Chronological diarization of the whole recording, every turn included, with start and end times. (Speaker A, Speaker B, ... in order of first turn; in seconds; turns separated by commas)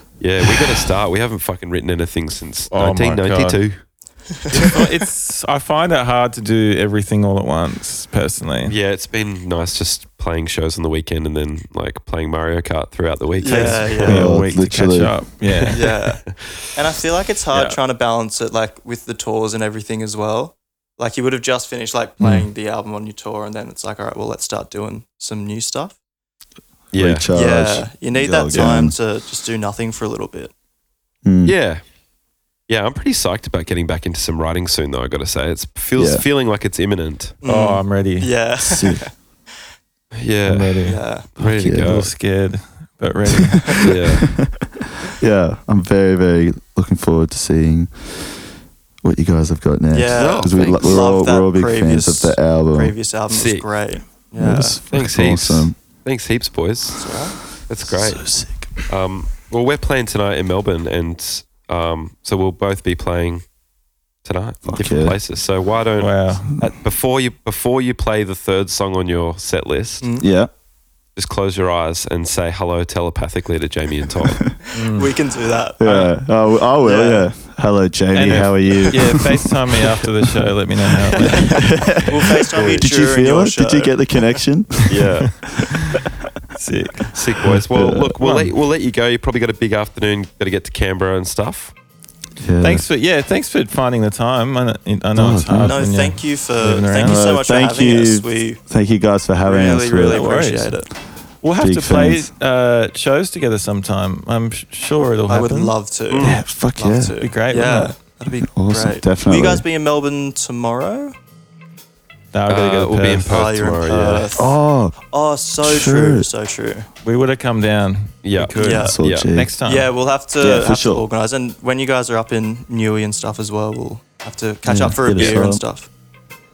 Speaker A: 0.2-3.8, Speaker B: 2.7-3.6, Speaker B: 4.6-8.8, Speaker A: 8.7-14.2, Speaker C: 13.4-14.3, Speaker B: 13.5-15.8, Speaker D: 14.1-15.3, Speaker A: 15.5-16.6, Speaker C: 15.7-26.0, Speaker A: 17.5-17.8, Speaker D: 22.2-22.5, Speaker A: 26.9-27.3, Speaker D: 26.9-29.0, Speaker C: 27.3-30.5, Speaker D: 31.2-31.5, Speaker A: 31.4-31.8, Speaker A: 32.7-37.4, Speaker D: 36.0-36.2, Speaker C: 37.4-39.1, Speaker B: 37.5-38.3, Speaker D: 38.6-39.1, Speaker A: 40.1-42.1, Speaker B: 40.5-41.0, Speaker C: 40.9-41.3, Speaker D: 41.4-42.0, Speaker B: 41.8-44.0, Speaker A: 43.8-44.3, Speaker D: 44.3-48.4, Speaker D: 49.0-53.0, Speaker C: 49.9-54.8, Speaker A: 50.1-51.0, Speaker A: 53.3-53.7, Speaker D: 54.4-55.8, Speaker A: 54.9-57.0, Speaker C: 57.0-57.4, Speaker A: 57.7-58.3, Speaker D: 57.9-58.9, Speaker A: 58.9-63.5, Speaker A: 64.2-70.1, Speaker D: 64.7-65.2, Speaker B: 66.0-66.6, Speaker C: 70.0-70.3, Speaker D: 70.2-70.5, Speaker A: 71.2-74.4, Speaker C: 74.7-75.8, Speaker B: 74.8-75.1, Speaker D: 75.8-79.5, Speaker B: 75.8-76.1, Speaker C: 76.8-77.3, Speaker B: 78.1-81.7, Speaker A: 78.3-79.2, Speaker D: 81.1-85.0, Speaker C: 82.0-84.0, Speaker A: 82.5-82.8, Speaker A: 84.9-85.4, Speaker B: 85.4-87.6, Speaker A: 87.1-91.7, Speaker D: 87.7-88.2, Speaker B: 88.2-88.5, Speaker D: 92.4-92.8, Speaker B: 92.6-97.2, Speaker D: 95.1-95.9, Speaker C: 95.6-98.6, Speaker D: 97.0-100.3, Speaker C: 99.4-100.9, Speaker B: 100.1-100.8, Speaker B: 101.4-105.7, Speaker D: 101.5-102.3, Speaker C: 105.3-111.2, Speaker A: 106.1-106.4, Speaker D: 106.2-107.2, Speaker B: 107.2-108.0, Speaker D: 108.3-109.6, Speaker B: 112.3-113.3, Speaker A: 112.5-114.3, Speaker C: 113.3-114.6, Speaker D: 114.3-115.0, Speaker C: 115.1-116.9, Speaker D: 115.6-116.3, Speaker B: 117.0-119.9, Speaker A: 118.2-119.3, Speaker C: 118.5-119.0, Speaker D: 118.8-119.6, Speaker C: 119.6-125.9, Speaker D: 120.4-121.0, Speaker D: 124.6-125.6